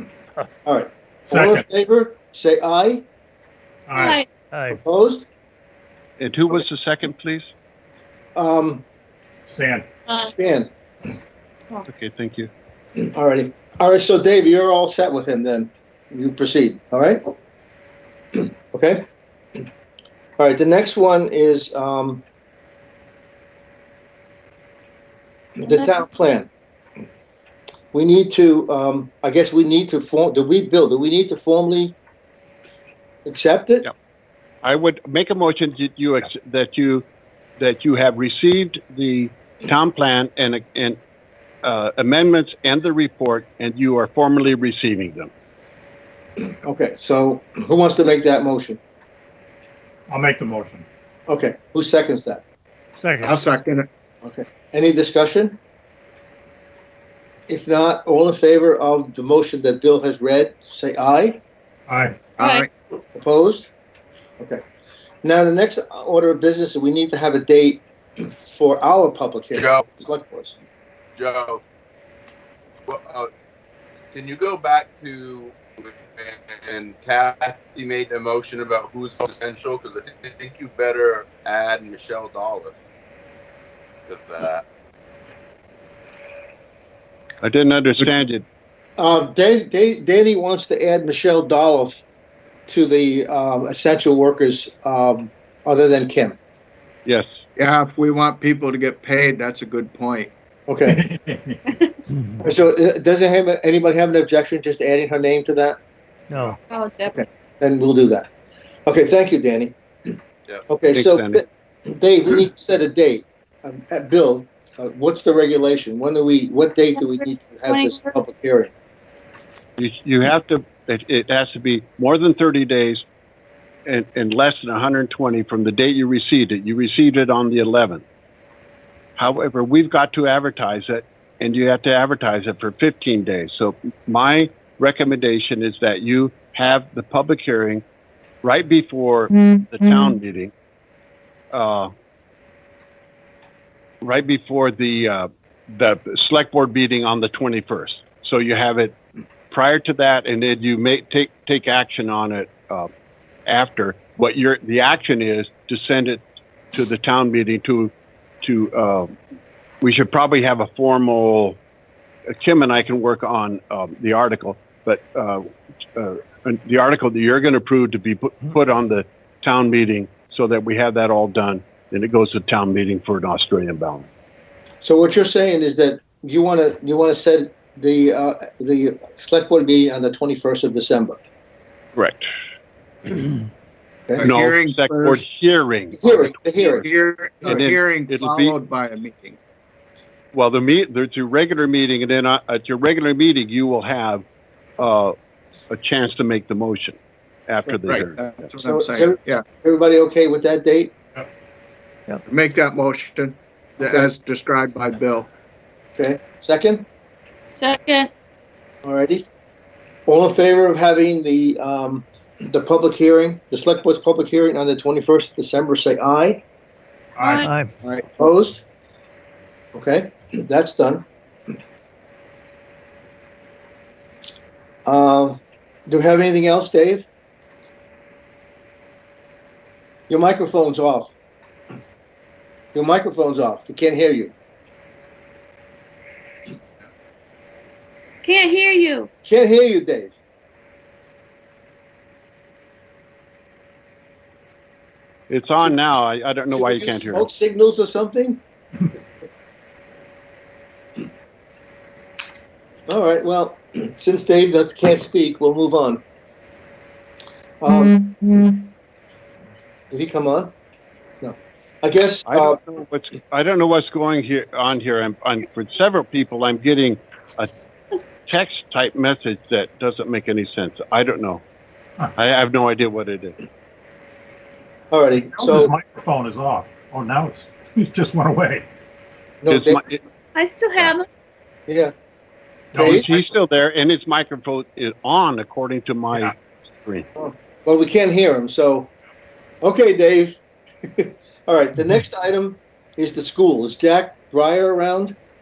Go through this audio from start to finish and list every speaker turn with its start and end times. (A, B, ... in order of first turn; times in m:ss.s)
0:00.6-0:03.0 A
0:01.3-0:01.6 B
0:03.9-0:04.8 B
0:03.9-0:04.3 C
0:04.7-0:05.3 A
0:06.2-0:07.5 D
0:08.3-0:08.8 A
0:09.5-0:09.9 B
0:10.2-0:10.7 A
0:11.9-0:12.5 D
0:13.1-0:17.2 A
0:18.3-0:19.0 A
0:20.4-0:22.2 A
0:25.6-0:26.5 A
0:27.9-0:32.0 A
0:33.2-0:33.9 A
0:34.6-0:37.0 D
0:37.6-0:41.0 D
0:41.6-0:45.3 D
0:46.6-0:48.8 A
0:50.1-0:50.8 B
0:51.3-0:52.4 A
0:53.0-0:53.3 B
0:53.2-0:53.9 E
0:54.2-0:55.6 A
0:57.5-1:01.4 A
1:01.9-1:02.2 B
1:02.4-1:02.7 E
1:02.4-1:02.6 C
1:03.2-1:03.7 A
1:05.2-1:10.6 A
1:09.5-1:09.8 F
1:11.2-1:11.6 F
1:12.9-1:13.3 F
1:14.1-1:22.7 F
1:24.1-1:24.6 F
1:27.4-1:28.4 D
1:29.0-1:32.0 A
1:32.7-1:36.4 A
1:37.6-1:40.3 E
1:40.7-1:41.0 A
1:40.9-1:41.6 B
1:42.4-1:45.8 A
1:46.3-1:46.6 B
1:46.7-1:47.2 C
1:47.1-1:48.3 A
1:48.8-1:49.8 A
1:50.7-1:58.7 A
1:50.9-1:51.4 D
1:57.0-1:58.1 C
1:59.8-2:03.0 D
2:03.9-2:08.0 D
2:09.2-2:17.8 D
2:18.4-2:20.5 D
2:21.5-2:21.9 D
2:24.0-2:29.0 D
2:29.5-2:32.9 D
2:33.5-2:37.9 D
2:38.4-2:39.1 D
2:39.8-2:41.6 D
2:42.3-2:45.4 D
2:45.9-2:54.1 D
2:54.8-3:01.2 A
3:02.0-3:02.2 D
3:04.2-3:05.2 E
3:04.2-3:06.8 D
3:06.0-3:06.8 A
3:06.6-3:09.4 E
3:07.4-3:08.6 D
3:10.3-3:14.2 D
3:14.8-3:15.1 D
3:15.7-3:17.0 D
3:17.5-3:18.1 D
3:17.9-3:19.4 E
3:18.6-3:20.9 A
3:22.2-3:25.3 E
3:23.8-3:24.1 A
3:26.0-3:26.8 A
3:27.6-3:28.1 C
3:28.8-3:29.3 A
3:30.0-3:36.4 A
3:37.2-3:37.5 C
3:37.2-3:37.7 B
3:38.0-3:38.6 A
3:39.7-3:41.0 A
3:44.8-3:47.1 A
3:50.1-3:51.1 A
3:52.7-3:54.3 A
3:58.2-3:59.1 C
3:59.2-4:00.1 A
4:05.3-4:07.3 D
4:05.6-4:05.9 A
4:06.5-4:08.4 A
4:12.9-4:16.0 A
4:17.6-4:18.5 A
4:19.9-4:20.5 A
4:21.2-4:22.6 A
4:22.3-4:27.5 D
4:28.3-4:31.4 D
4:32.2-4:33.4 D
4:34.9-4:35.7 A
4:35.3-4:38.7 B
4:39.4-4:39.8 A
4:39.5-4:40.0 D
4:40.3-4:41.1 C
4:41.7-4:41.9 A
4:42.7-4:43.0 A
4:42.7-4:47.0 D
4:42.7-4:43.2 B
4:47.2-4:48.9 A
4:49.6-4:50.4 A
4:50.9-4:55.1 A